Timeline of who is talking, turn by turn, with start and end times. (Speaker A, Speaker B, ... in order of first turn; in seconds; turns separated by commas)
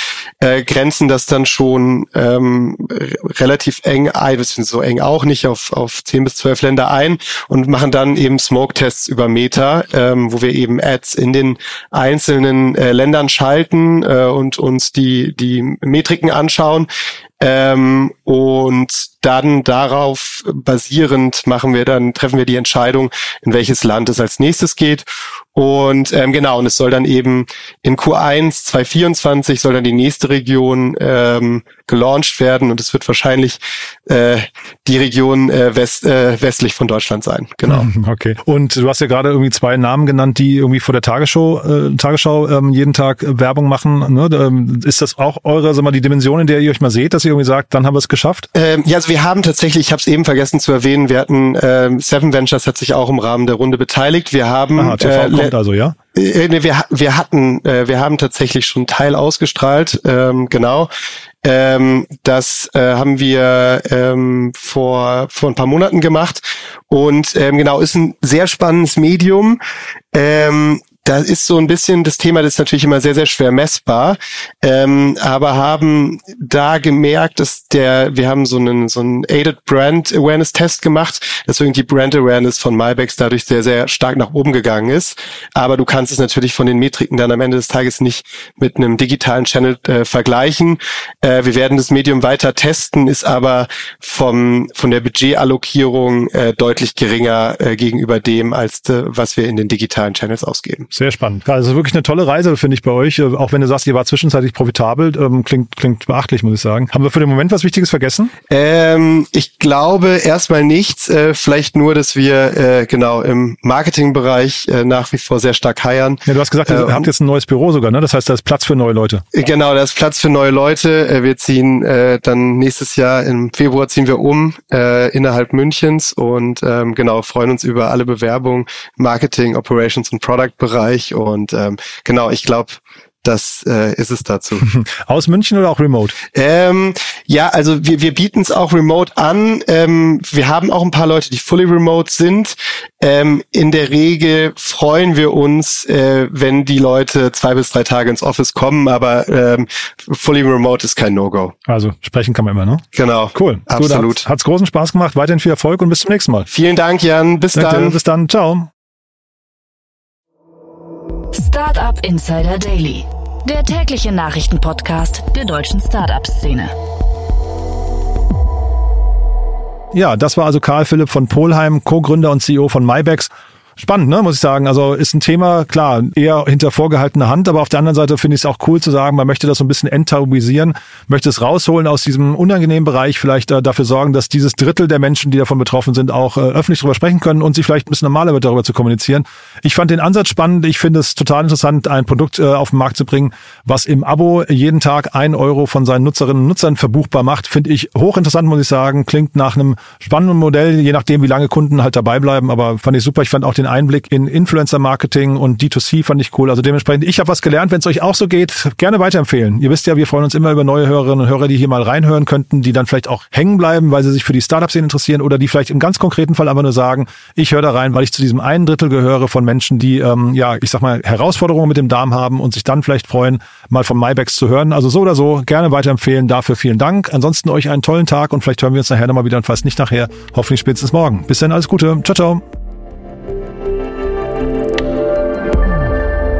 Speaker A: 0.4-16.9, Speaker A: 17.4-37.9, Speaker B: 37.7-48.5, Speaker A: 48.5-55.5, Speaker B: 54.8-56.0, Speaker A: 56.1-60.9, Speaker A: 61.4-69.6, Speaker A: 70.1-100.9, Speaker B: 100.9-108.3, Speaker A: 108.5-117.1, Speaker B: 116.2-119.2, Speaker A: 119.3-134.7, Speaker B: 134.6-136.2, Speaker A: 136.3-151.5, Speaker B: 151.7-156.5, Speaker A: 152.9-154.2, Speaker A: 156.5-158.0, Speaker B: 157.5-158.7, Speaker C: 161.3-166.7, Speaker B: 169.9-232.4